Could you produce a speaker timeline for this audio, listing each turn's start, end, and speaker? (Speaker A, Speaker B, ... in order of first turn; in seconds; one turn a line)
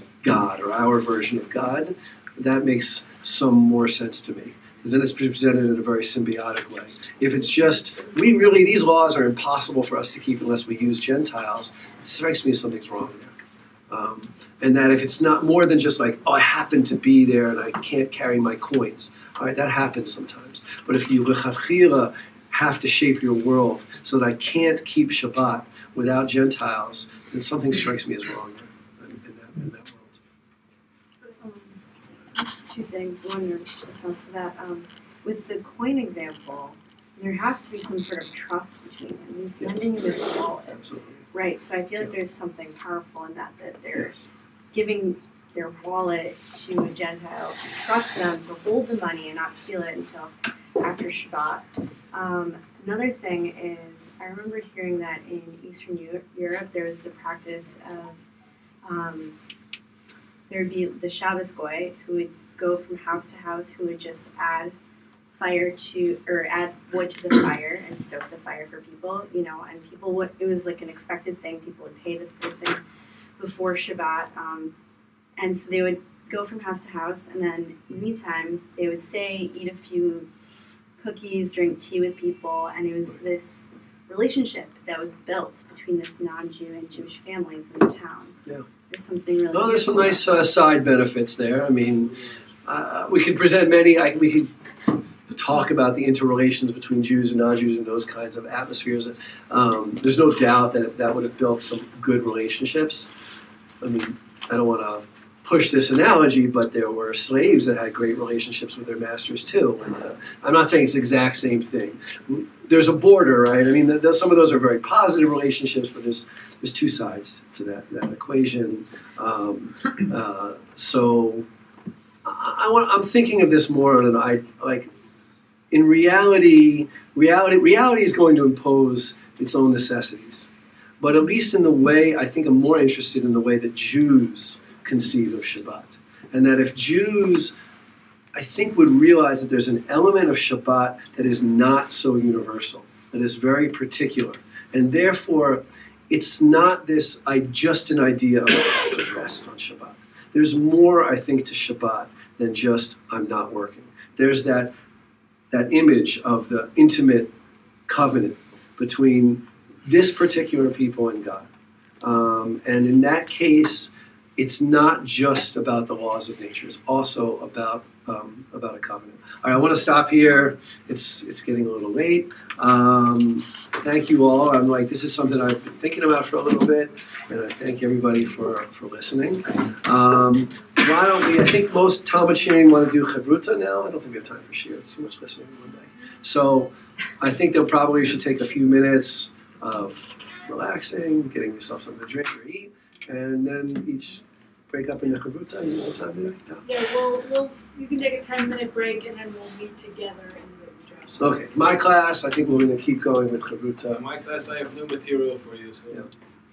Speaker A: 0.2-13.3
Speaker A: 13.9-30.2
Speaker B: 31.4-31.8
Speaker B: 32.3-58.2
Speaker A: 39.6-41.2
Speaker A: 44.0-44.3
Speaker B: 58.8-59.3
Speaker B: 60.5-64.7
Speaker B: 65.3-72.8
Speaker B: 73.4-74.7
Speaker B: 75.4-80.3
Speaker B: 81.0-90.7
Speaker A: 89.5-94.5
Speaker A: 95.3-103.1
Speaker A: 103.8-121.4
Speaker A: 122.2-124.9
Speaker A: 125.7-130.5
Speaker A: 131.0-137.5
Speaker A: 138.3-154.7
Speaker A: 155.5-157.3
Speaker A: 157.9-161.5
Speaker A: 162.0-196.7
Speaker C: 196.6-201.4
Speaker A: 201.2-204.0
Speaker D: 203.9-206.1